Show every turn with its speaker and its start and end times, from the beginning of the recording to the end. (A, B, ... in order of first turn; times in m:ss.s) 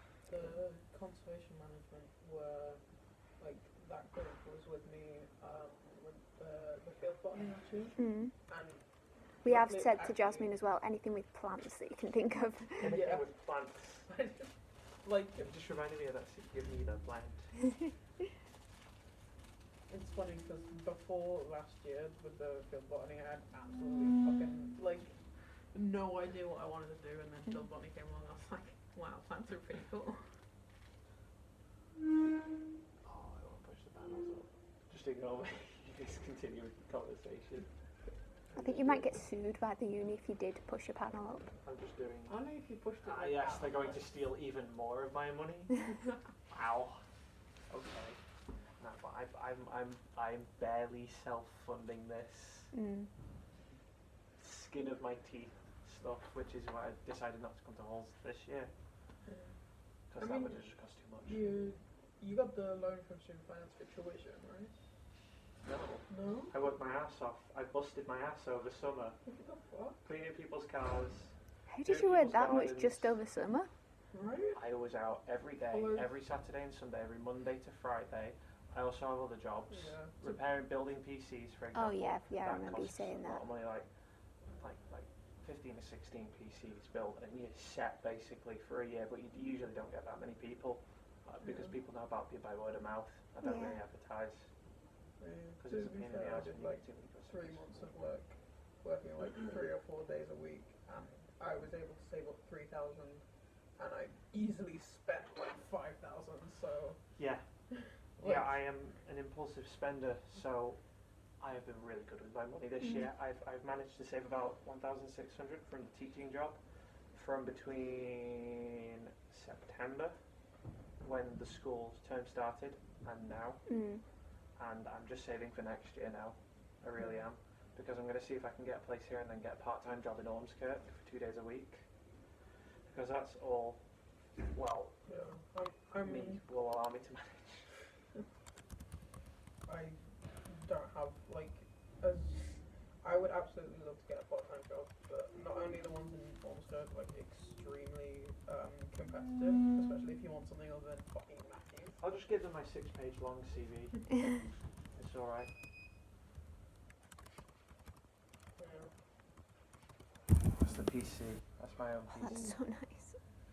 0:00.2-0:10.6 A
0:08.0-0:08.3 B
0:09.4-0:13.0 B
0:12.8-0:14.1 C
0:12.8-0:15.5 A
0:15.4-0:17.7 C
0:19.9-0:30.2 A
0:33.0-0:37.7 C
0:38.5-0:39.1 A
0:38.6-0:41.4 B
0:41.6-0:42.4 C
0:42.3-0:44.1 A
0:43.0-0:45.9 C
0:46.4-0:47.0 C
0:47.7-0:48.2 C
0:48.8-0:52.7 C
0:52.7-0:53.1 B
0:54.4-0:58.7 C
0:59.3-0:59.5 A
1:00.1-1:01.5 C
1:00.2-1:00.6 A
1:01.2-1:04.8 A
1:05.6-1:09.2 C
1:06.1-1:06.5 A
1:09.3-1:10.0 A
1:10.0-1:13.2 C
1:11.7-1:13.7 B
1:14.1-1:14.6 A
1:14.5-1:23.9 C
1:15.7-1:16.1 A
1:19.7-1:20.4 A
1:21.7-1:23.4 B
1:24.6-1:34.5 C
1:31.4-1:31.7 A
1:33.4-1:33.8 B
1:35.2-1:47.1 A
1:35.6-1:37.8 C
1:47.2-1:47.5 C
1:48.1-1:48.6 A
1:48.2-1:50.8 C
1:51.4-1:56.6 C
1:57.1-2:00.2 C
2:01.0-2:03.6 C
2:03.7-2:04.0 B
2:04.6-2:11.9 C
2:12.9-2:13.8 C
2:14.4-2:15.1 C
2:15.1-2:16.4 A
2:16.0-2:17.8 C
2:19.6-2:32.0 A
2:32.0-2:34.2 C
2:34.9-2:35.5 C
2:38.6-2:38.9 A
2:40.4-2:42.6 C
2:42.2-2:43.2 B